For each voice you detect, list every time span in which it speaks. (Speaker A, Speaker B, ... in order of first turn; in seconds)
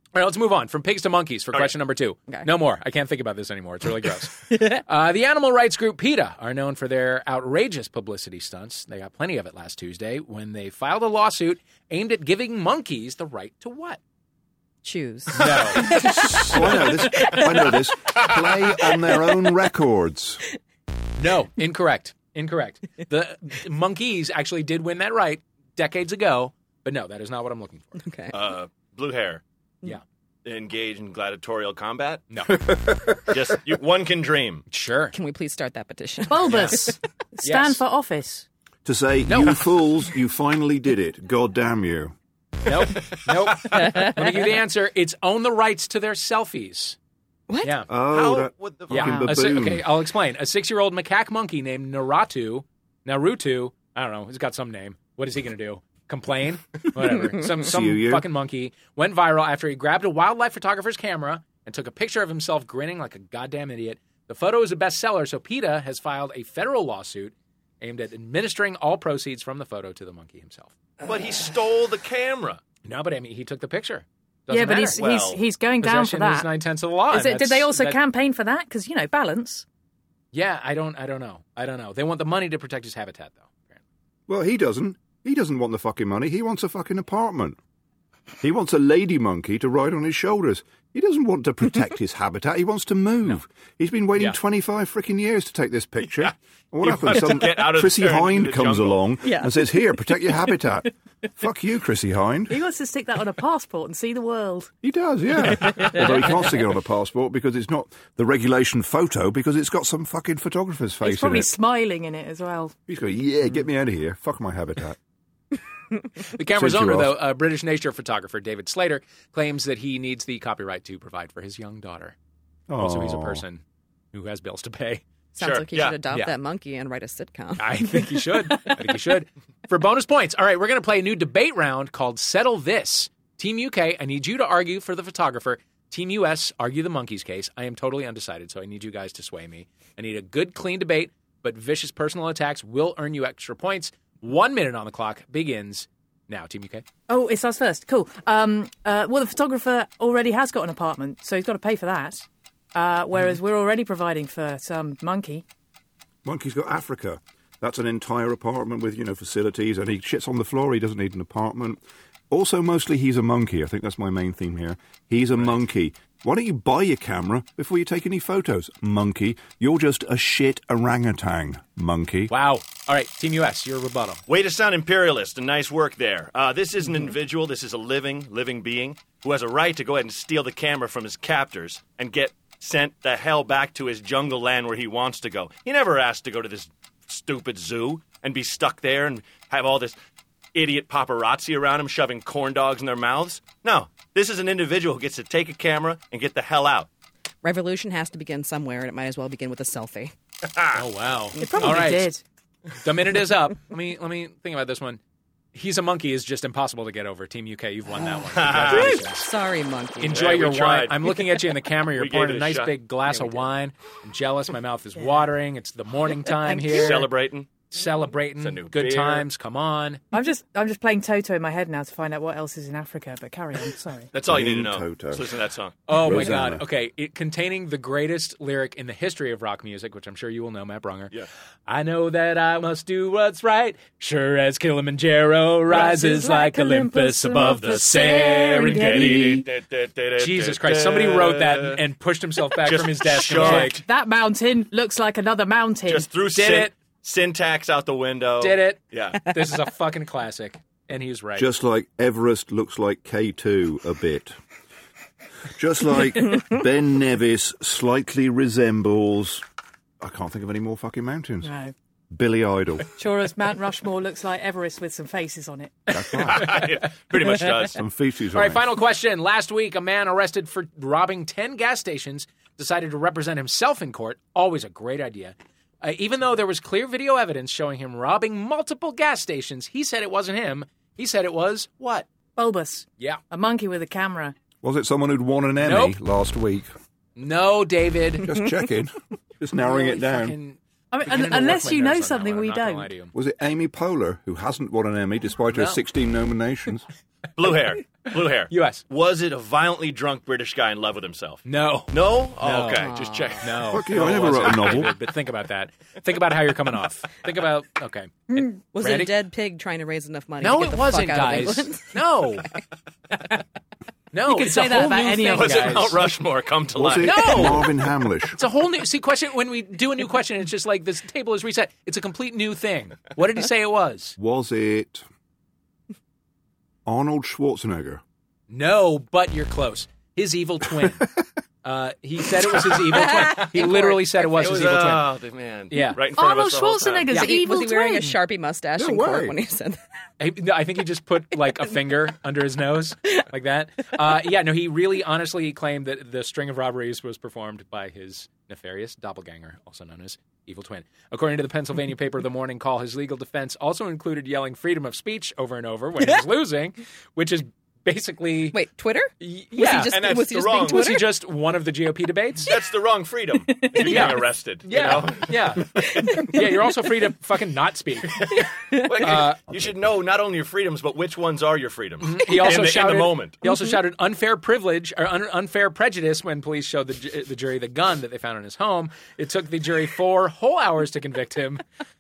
Speaker A: 0.1-14.0, 15.3-15.9, 16.5-16.9, 21.2-27.9, 32.3-32.6, 34.7-35.1, 36.4-36.8, 37.4-37.8, 39.3-39.6, 42.6-47.0, 47.6-47.9, 48.9-70.8, 72.8-75.0, 75.8-78.0, 80.3-83.8, 116.3-122.2, 122.8-123.6, 124.1-125.0, 127.6-146.8, 165.4-165.6, 172.3-174.2, 200.8-202.1, 202.8-205.0, 205.6-209.3, 210.0-217.1, 217.7-220.0, 225.9-231.1, 231.7-239.4, 240.2-243.8, 246.3-246.7, 248.4-251.5, 265.9-266.9, 268.3-282.1, 285.6-286.0, 287.2-288.3, 289.6-293.1, 295.5-295.8, 298.5-298.8, 301.4-302.9, 303.4-309.1, 310.4-312.5, 314.1-316.0, 317.0-317.7, 318.3-324.2, 328.5-331.1, 331.6-335.1, 335.7-336.0, 340.2-358.6, 359.2-362.5, 363.7-368.2, 369.0-369.4, 372.0-381.6
Speaker B: 4.5-4.8, 14.8-17.8, 28.0-28.4, 35.1-37.0, 43.7-44.3, 47.5-47.8, 99.2-100.5, 105.8-106.2, 125.3-128.7, 197.4-200.1, 201.4-201.9, 207.9-210.4, 213.1-213.4, 216.5-217.0, 302.8-303.4, 308.4-312.6, 332.9-334.1, 337.1-339.8, 358.5-361.1, 368.7-369.2, 373.4-373.7
Speaker C: 16.0-20.4, 32.5-33.5, 38.9-42.1, 47.9-49.9, 57.6-58.3, 84.3-87.6, 88.4-102.6, 104.8-111.5, 112.9-115.0, 116.5-117.2, 122.7-123.4, 156.2-172.3, 224.2-225.3, 225.9-226.7, 251.4-254.4, 255.5-259.4, 260.0-261.5, 262.1-262.9, 265.9-266.6, 267.6-268.7, 284.6-286.7, 288.2-290.4, 293.1-296.9, 303.7-304.9, 316.8-318.4, 324.2-325.1, 326.9-328.0, 338.8-339.4
Speaker D: 28.3-29.4, 30.4-32.3, 33.3-34.6, 48.1-49.3, 71.0-72.6, 75.0-75.4, 96.8-99.0, 125.4-126.0, 174.3-189.9, 190.5-196.9, 200.4-200.8, 208.3-209.0, 210.1-211.0, 211.9-212.8, 216.7-217.5, 218.4-219.3, 224.1-225.8, 237.6-241.8, 242.6-243.8, 245.9-249.3, 266.3-267.9, 297.4-304.8, 315.3-317.4, 333.2-333.4, 334.2-337.1, 359.9-361.0, 362.5-366.2, 368.4-373.4
Speaker E: 36.3-38.5, 74.5-76.5, 77.1-79.7, 102.5-104.7, 111.0-112.8, 147.1-155.4, 201.4-202.2, 220.1-224.1, 235.7-239.4, 243.3-246.1, 261.4-261.7, 263.0-265.8, 282.4-284.3, 290.9-292.9, 314.3-315.9, 336.2-338.2